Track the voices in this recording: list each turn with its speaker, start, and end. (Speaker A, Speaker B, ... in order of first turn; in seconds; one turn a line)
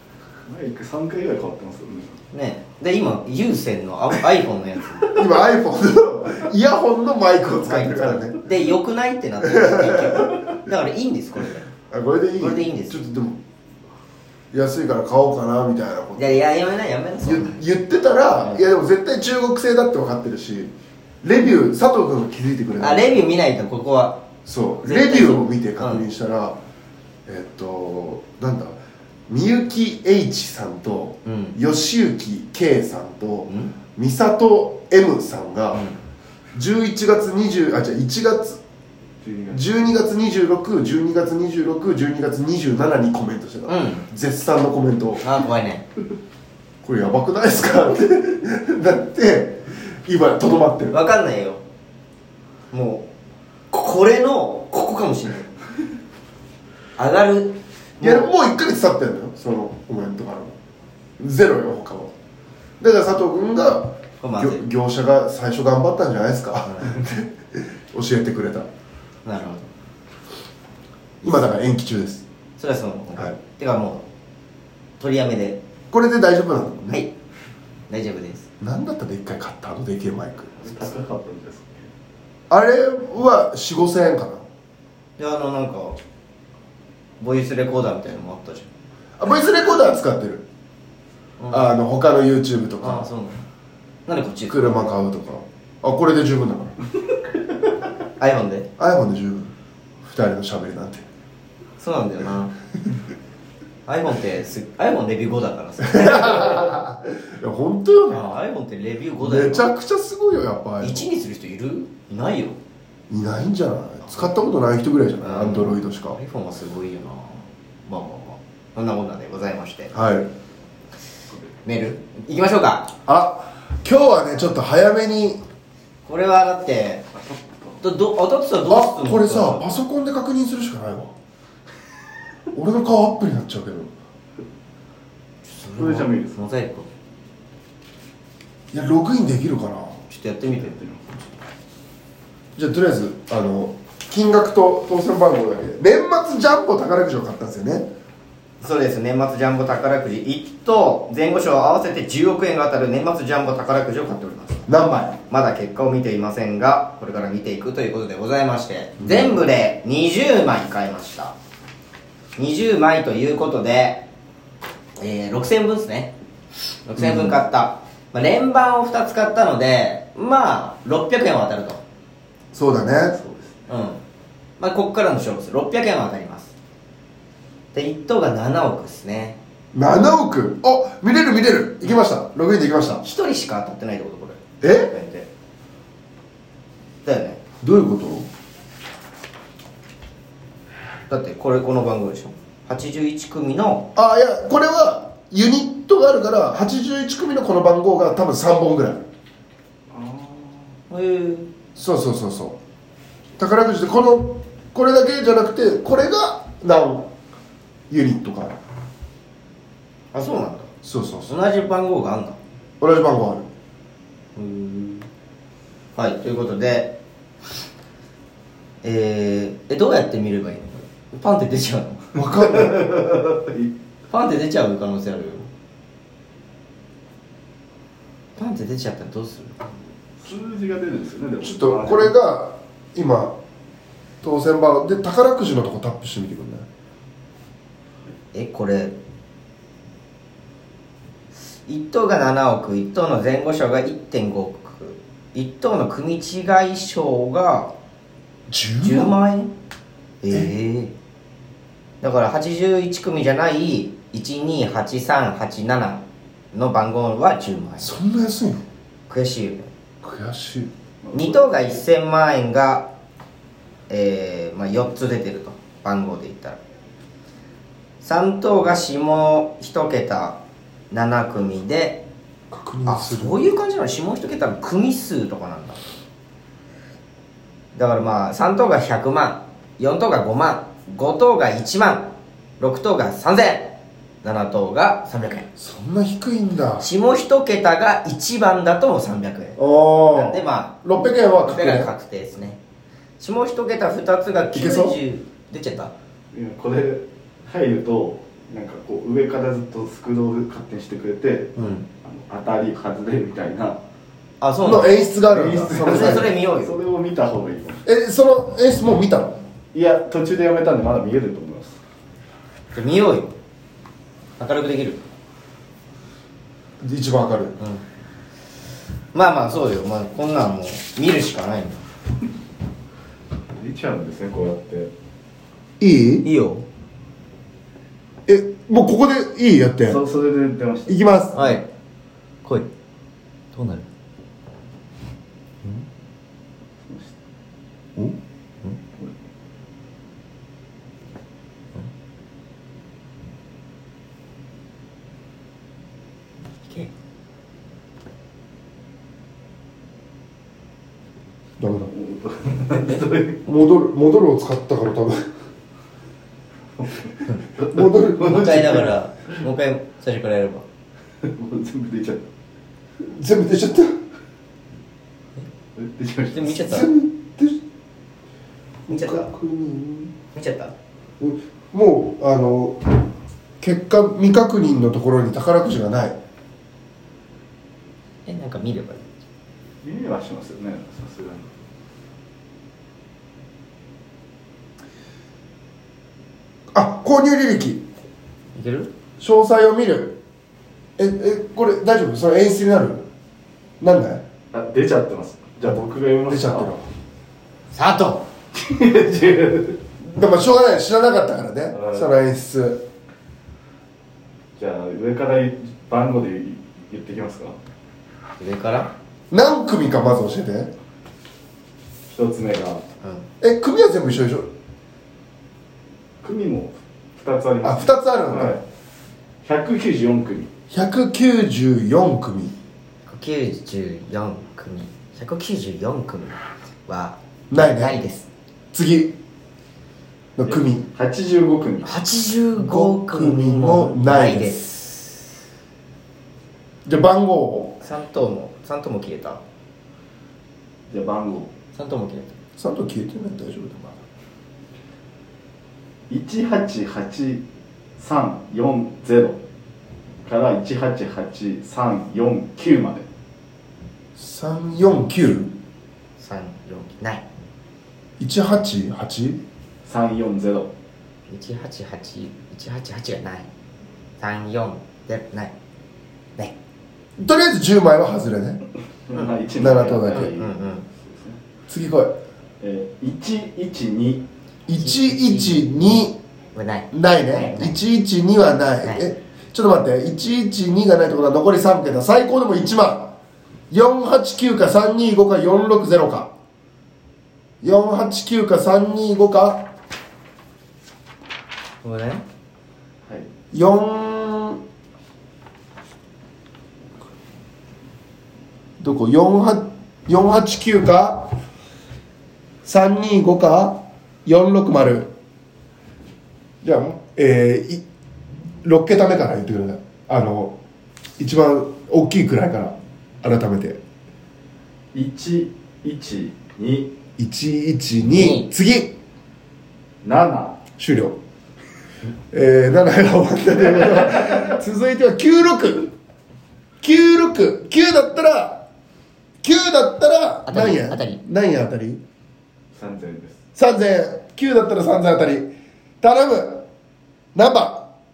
Speaker A: 0.5-2.2
Speaker B: 2.3-5.1
Speaker C: 5.1-8.4
Speaker B: 7.6-11.7
Speaker C: 9.4-10.4
Speaker C: 11.9-13.4
Speaker B: 12.4-13.0
Speaker C: 14.5-16.3
Speaker B: 16.1-17.6
Speaker C: 17.2-23.2
Speaker B: 22.8-24.2
Speaker C: 24.4-26.6
Speaker B: 24.8-26.0
Speaker C: 27.2-35.9
Speaker B: 31.2-31.6
Speaker B: 33.5-33.7
Speaker B: 35.7-36.0
Speaker C: 36.5-38.6
Speaker A: 39.2-39.6
Speaker C: 39.5-45.2
Speaker B: 43.7-44.0
Speaker B: 45.2-45.8
Speaker C: 46.8-51.0
Speaker B: 50.9-51.6
Speaker B: 52.7-53.0
Speaker B: 53.7-55.5
Speaker B: 57.0-58.3
Speaker C: 58.0-60.5
Speaker C: 61.2-62.1
Speaker C: 62.8-68.7
Speaker B: 64.2-64.6
Speaker B: 66.7-67.0
Speaker B: 69.2-69.7
Speaker B: 71.2-71.5
Speaker C: 71.2-72.2
Speaker B: 72.6-74.0
Speaker B: 75.0-75.6
Speaker C: 75.9-77.0
Speaker B: 77.9-78.5
Speaker C: 78.6-80.9
Speaker A: 80.6-81.9
Speaker C: 82.5-84.5
Speaker B: 85.2-86.0
Speaker B: 87.2-88.7
Speaker C: 89.2-90.4
Speaker B: 91.4-91.7
Speaker C: 91.5-93.1
Speaker B: 92.8-93.4
Speaker B: 94.1-94.9
Speaker C: 94.5-96.7
Speaker B: 98.2-98.7
Speaker C: 98.8-99.5
Speaker C: 100.0-101.0
Speaker B: 101.8-102.5
Speaker B: 103.9-106.7
Speaker C: 105.8-108.3
Speaker B: 108.1-109.7
Speaker C: 109.2-111.1
Speaker B: 110.8-112.6
Speaker C: 113.1-116.2
Speaker B: 115.2-119.9
Speaker C: 119.9-120.3
Speaker B: 121.6-122.9
Speaker C: 123.0-125.4
Speaker B: 126.0-127.0
Speaker A: 127.2-127.8
Speaker B: 127.8-129.8
Speaker C: 128.7-131.1
Speaker C: 132.5-133.9
Speaker B: 135.6-136.9
Speaker A: 135.8-136.4
Speaker C: 138.7-140.0
Speaker B: 140.1-141.0
Speaker C: 142.6-147.9
Speaker B: 148.6-154.6
Speaker C: 154.7-155.2
Speaker B: 155.3-161.3
Speaker C: 159.0-159.4
Speaker B: 162.4-164.0
Speaker B: 165.0-166.1
Speaker B: 166.8-171.8
Speaker C: 167.0-167.3
Speaker C: 172.5-173.2
Speaker A: 173.1-173.6
Speaker B: 173.7-174.0
Speaker B: 174.6-176.5
Speaker B: 177.7-179.4
Speaker C: 179.7-183.0
Speaker B: 183.0-185.3
Speaker C: 184.6-184.9
Speaker B: 187.0-187.4
Speaker C: 187.6-188.3
Speaker B: 191.1-193.9
Speaker C: 193.9-199.1
Speaker A: 199.9-200.7
Speaker B: 200.9-201.5
Speaker C: 201.8-202.6
Speaker C: 203.4-207.1
Speaker C: 207.9-208.6
Speaker B: 210.1-210.7
Speaker C: 210.8-211.3
Speaker B: 211.3-212.4
Speaker C: 212.8-213.5
Speaker B: 214.3-215.1
Speaker B: 215.9-217.0
Speaker B: 218.8-222.2
Speaker C: 222.1-222.9
Speaker A: 222.4-223.7
Speaker B: 224.1-225.5
Speaker B: 228.4-229.6
Speaker A: 230.2-232.1
Speaker C: 231.4-233.3
Speaker C: 234.2-236.7
Speaker B: 238.3-238.9
Speaker B: 241.5-247.7
Speaker C: 248.5-249.2
Speaker B: 248.8-249.5
Speaker B: 250.2-250.9
Speaker B: 252.0-257.9
Speaker C: 257.8-258.6
Speaker B: 259.1-259.7
Speaker C: 260.0-260.7
Speaker A: 261.0-261.4
Speaker B: 261.1-262.9
Speaker B: 263.9-266.6
Speaker B: 268.0-270.4
Speaker B: 270.9-272.0
Speaker C: 272.5-273.4
Speaker B: 272.9-275.8
Speaker B: 277.7-285.5
Speaker C: 285.6-286.9
Speaker B: 286.8-289.6
Speaker C: 289.6-291.9
Speaker B: 290.1-290.8
Speaker B: 291.4-292.6
Speaker B: 293.2-295.9
Speaker C: 294.5-295.0
Speaker A: 296.3-303.8
Speaker B: 301.6-301.8
Speaker B: 304.4-305.0
Speaker C: 304.6-306.3
Speaker A: 305.3-307.8
Speaker B: 305.7-306.8
Speaker C: 307.9-309.4
Speaker A: 309.7-311.8
Speaker B: 312.7-313.3
Speaker B: 314.4-315.0
Speaker C: 316.8-317.6
Speaker B: 319.1-321.8
Speaker A: 323.5-324.9
Speaker C: 325.8-326.2
Speaker B: 326.2-326.6
Speaker C: 328.3-330.0
Speaker A: 329.9-331.0
Speaker C: 330.9-331.4
Speaker B: 331.3-331.6
Speaker B: 332.4-332.7
Speaker B: 333.5-333.9
Speaker A: 336.8-337.2
Speaker C: 351.6-351.9
Speaker A: 351.9-353.4
Speaker C: 353.4-355.2
Speaker A: 356.8-358.9
Speaker C: 357.7-358.8
Speaker B: 358.2-360.6
Speaker A: 361.2-362.2
Speaker C: 363.0-363.9
Speaker A: 365.8-366.6
Speaker B: 366.3-366.9
Speaker C: 366.6-367.6
Speaker B: 368.9-369.3
Speaker C: 368.9-370.1
Speaker B: 370.3-370.7
Speaker C: 371.2-373.1
Speaker C: 373.6-376.2
Speaker B: 378.2-379.1
Speaker A: 379.8-381.5
Speaker C: 386.7-387.8
Speaker B: 388.5-388.9
Speaker C: 389.2-390.2
Speaker C: 391.0-393.1
Speaker C: 393.8-394.2
Speaker A: 394.5-396.7
Speaker C: 396.3-396.8
Speaker B: 397.7-398.2
Speaker A: 398.5-399.8
Speaker C: 400.0-402.8
Speaker A: 401.7-402.1
Speaker A: 404.6-407.6
Speaker B: 408.4-408.9
Speaker C: 409.3-410.7
Speaker A: 412.1-412.8
Speaker C: 413.4-414.5
Speaker A: 416.2-418.6
Speaker C: 417.6-418.6
Speaker A: 419.4-420.5
Speaker C: 420.7-422.5
Speaker B: 423.1-428.2
Speaker C: 427.5-428.0
Speaker C: 428.7-429.1
Speaker C: 430.4-430.8
Speaker A: 430.4-431.9
Speaker B: 431.8-435.2
Speaker C: 432.5-434.6
Speaker C: 436.9-437.8
Speaker B: 437.8-439.4
Speaker A: 440.9-441.5
Speaker B: 441.7-442.3
Speaker C: 442.6-444.0
Speaker A: 446.1-447.4
Speaker A: 448.0-449.4
Speaker A: 450.2-453.1
Speaker C: 454.1-455.5
Speaker B: 456.2-457.2
Speaker C: 458.2-459.4
Speaker A: 459.8-460.7
Speaker B: 461.3-463.5
Speaker B: 464.2-465.5
Speaker C: 467.2-468.6
Speaker A: 469.1-471.4
Speaker C: 469.6-470.3
Speaker B: 470.1-470.8
Speaker C: 471.7-472.1
Speaker A: 472.6-474.2
Speaker C: 474.7-476.2
Speaker B: 474.8-476.0
Speaker B: 476.5-477.8
Speaker C: 476.9-483.1
Speaker C: 483.7-486.3
Speaker C: 487.6-489.7
Speaker B: 491.8-492.2
Speaker C: 493.5-494.6
Speaker C: 498.8-501.3
Speaker C: 502.6-505.1
Speaker C: 506.6-507.8
Speaker C: 508.6-510.6
Speaker C: 511.2-513.8
Speaker A: 514.9-516.9
Speaker C: 517.2-518.9
Speaker B: 518.1-518.5
Speaker A: 520.0-520.6
Speaker C: 520.8-521.2
Speaker C: 522.3-525.9
Speaker C: 526.8-528.6
Speaker C: 529.4-532.0
Speaker B: 530.5-531.2
Speaker A: 532.7-533.4
Speaker C: 533.5-535.5
Speaker C: 536.0-536.6
Speaker C: 537.3-537.9